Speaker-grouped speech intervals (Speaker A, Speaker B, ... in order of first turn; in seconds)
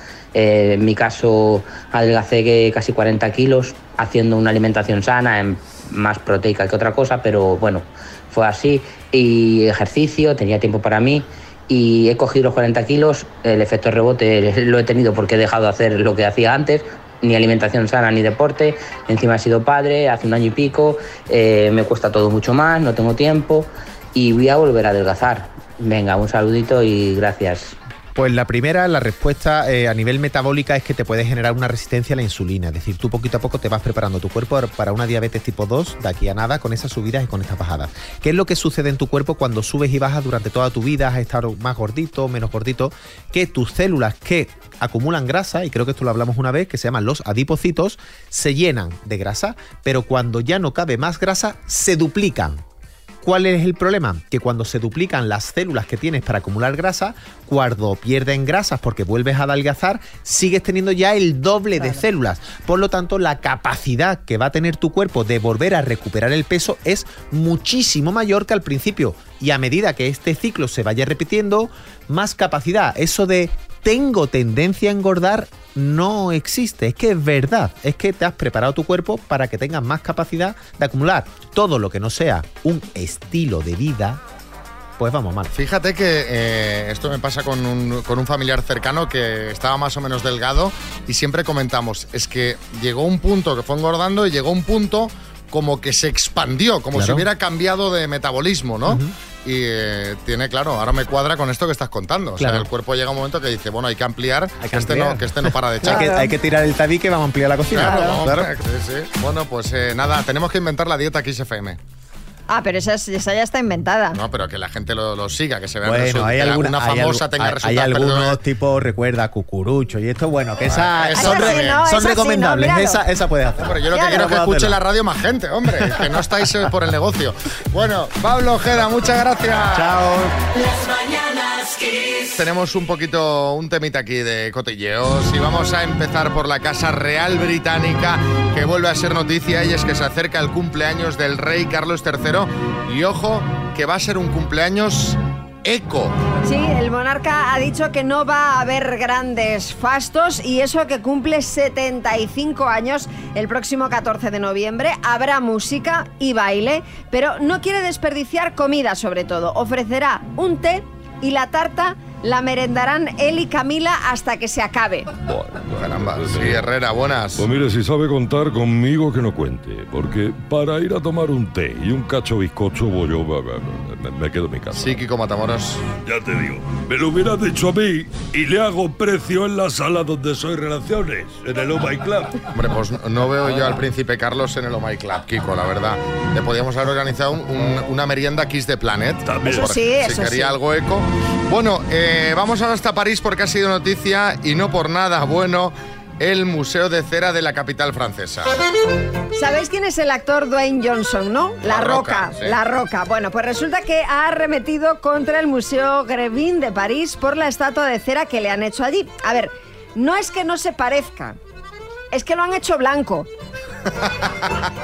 Speaker A: 0.3-27.8
Speaker B: 28.1-52.6, 53.2-84.2, 85.0-85.5, 96.9-97.3, 98.8-99.1, 102.4-102.7, 104.6-108.5, 115.8-124.8, 129.7-130.3
Speaker C: 85.5-106.1, 107.7-111.8, 114.1-118.4, 120.7-121.8, 123.6-130.1, 132.3-146.2, 165.8-167.5, 174.7-175.8, 182.5-198.6, 201.7-202.6
Speaker D: 105.8-106.3, 107.8-108.2, 112.5-114.2, 121.2-123.0, 123.9-124.2, 146.4-165.1, 189.6-190.6, 199.3-211.4, 212.1-213.3
Speaker E: 165.2-166.6, 167.4-175.0, 176.0-182.4, 189.2-189.7